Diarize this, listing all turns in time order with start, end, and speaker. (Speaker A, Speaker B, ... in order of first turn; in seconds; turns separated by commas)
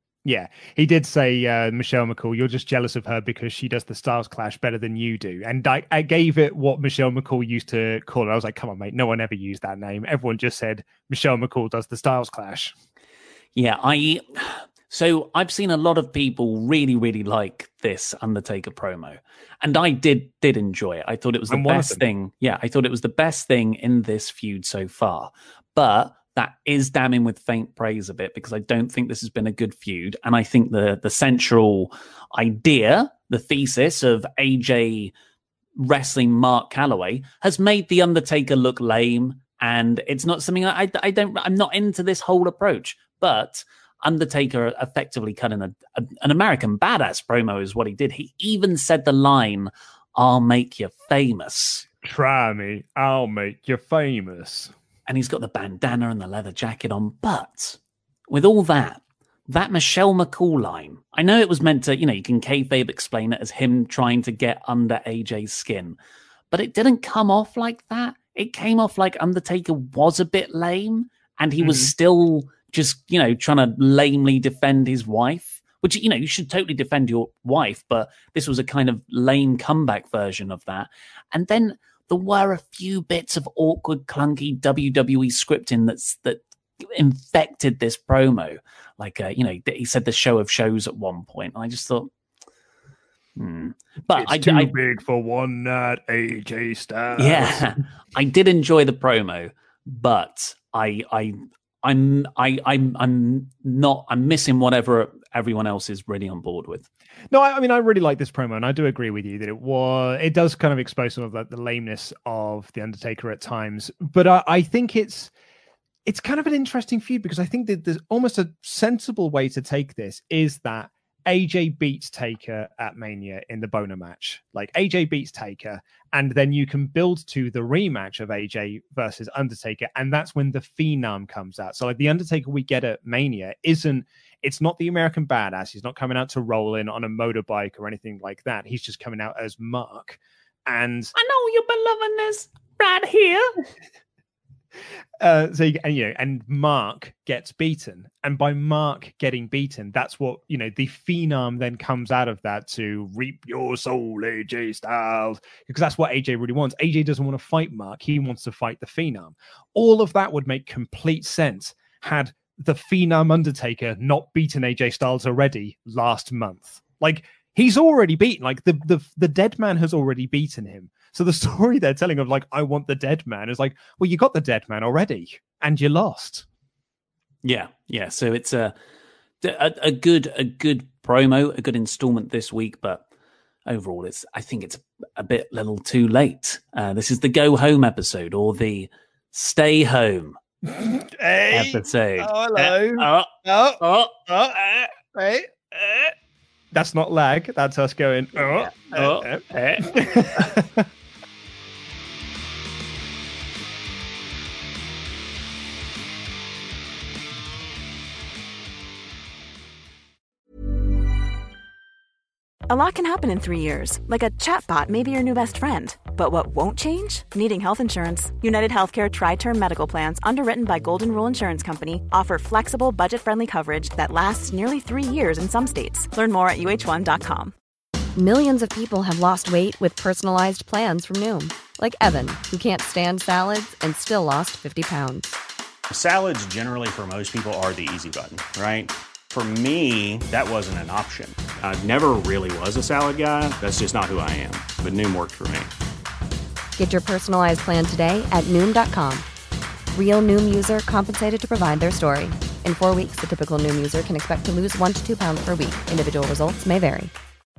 Speaker A: 0.2-12.7, Speaker B: 13.5-35.1, Speaker A: 21.5-22.1, Speaker B: 35.8-51.9, Speaker A: 52.0-54.7, Speaker B: 55.1-57.8, Speaker B: 58.3-66.0, Speaker B: 66.5-92.1, Speaker A: 71.6-71.9, Speaker B: 93.4-94.7, Speaker A: 94.1-97.8, Speaker B: 97.2-106.9, Speaker A: 107.3-115.3, Speaker A: 116.0-141.1, Speaker B: 141.2-143.5, Speaker A: 145.2-176.4, Speaker B: 177.4-178.7, Speaker B: 179.4-183.0, Speaker B: 183.7-190.4, Speaker A: 190.7-196.1, Speaker B: 191.5-194.1, Speaker A: 196.7-200.9, Speaker B: 198.4-199.9, Speaker C: 212.7-227.5, Speaker D: 228.2-235.3, Speaker E: 235.9-245.7, Speaker D: 246.8-249.2, Speaker D: 249.9-257.1